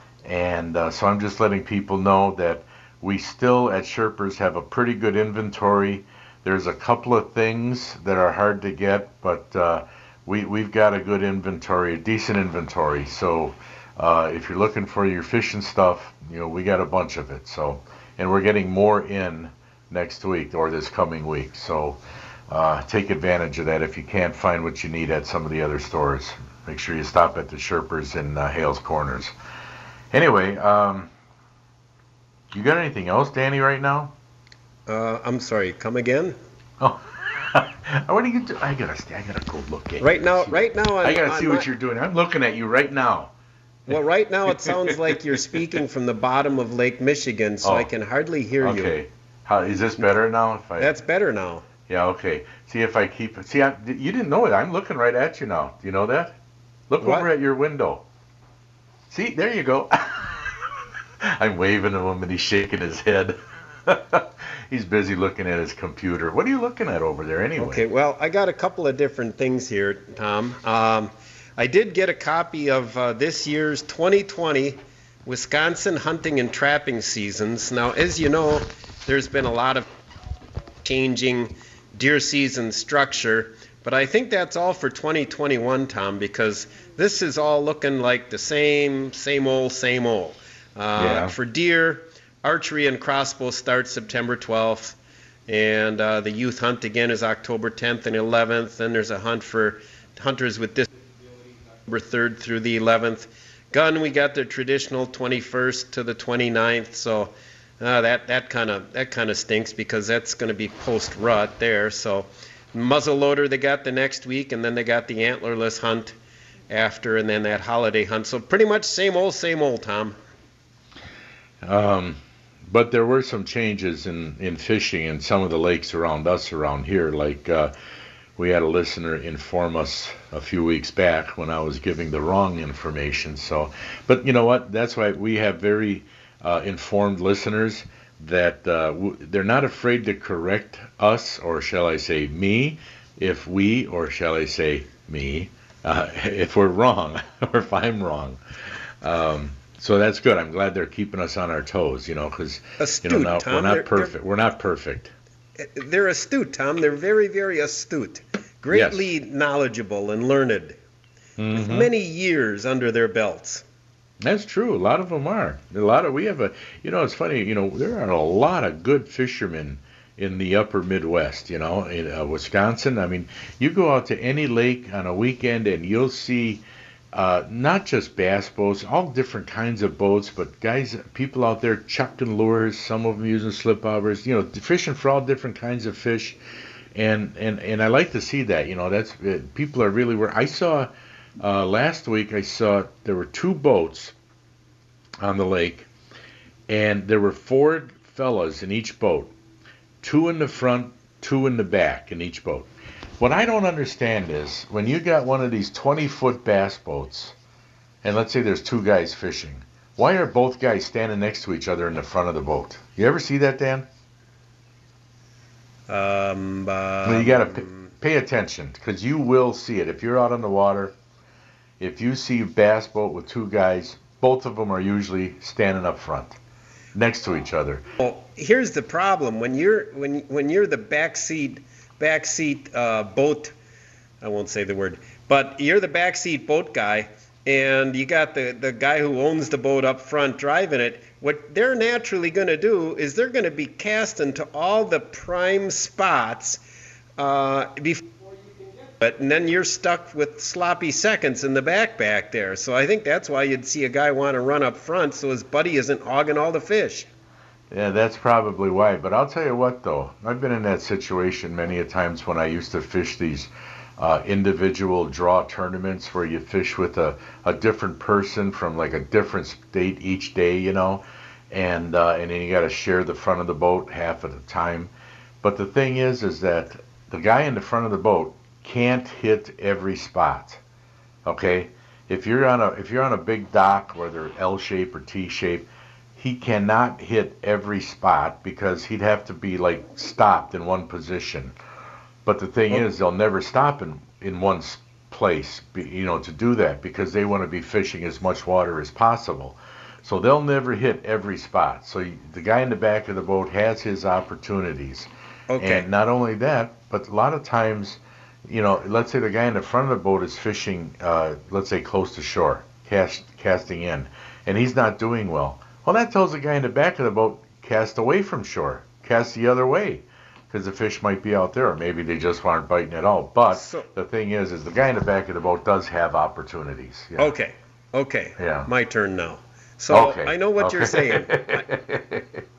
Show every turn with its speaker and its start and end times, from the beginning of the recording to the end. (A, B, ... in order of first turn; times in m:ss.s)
0:00.2-0:29.3 A
0:30.1-0:31.1 A
0:32.5-0:34.1 A
0:34.9-0:36.4 B
0:36.8-0:43.3 A
0:40.0-0:41.7 B
0:43.9-0:49.0 B
0:44.5-0:45.8 A
0:47.6-0:47.9 A
0:48.6-0:50.9 A
0:50.8-0:51.6 B
0:51.9-0:56.4 A
0:56.9-0:58.0 A
0:57.0-0:57.3 B
0:59.1-1:07.8 A
1:07.6-1:19.9 B
1:20.8-1:40.9 B
1:30.9-1:31.3 A
1:41.8-1:56.1 B
1:56.7-2:00.2 B
2:01.6-2:07.7 A
2:08.4-2:28.4 A
2:29.0-2:35.1 A
2:32.8-2:34.1 B
2:35.6-2:40.8 B
2:38.7-2:39.1 A
2:41.4-2:41.9 A
2:41.5-2:43.6 B
2:44.2-3:06.4 A
3:06.9-3:14.1 A
3:15.2-3:15.9 A
3:16.7-3:19.3 A
3:20.0-3:27.3 A
3:28.0-3:33.9 A
3:35.9-3:37.9 B
3:37.0-3:41.0 A
3:41.8-3:46.4 A
3:46.9-3:47.8 A
3:48.0-3:53.5 B
3:54.2-4:06.6 B
4:07.2-4:08.1 B
4:08.9-4:17.1 B
4:17.7-4:40.6 A
4:41.2-4:51.5 A
4:52.2-5:27.3 A
5:05.5-5:05.9 B
5:23.5-5:23.9 B
5:27.2-5:31.7 B
5:28.4-5:28.7 A
5:29.9-5:32.3 A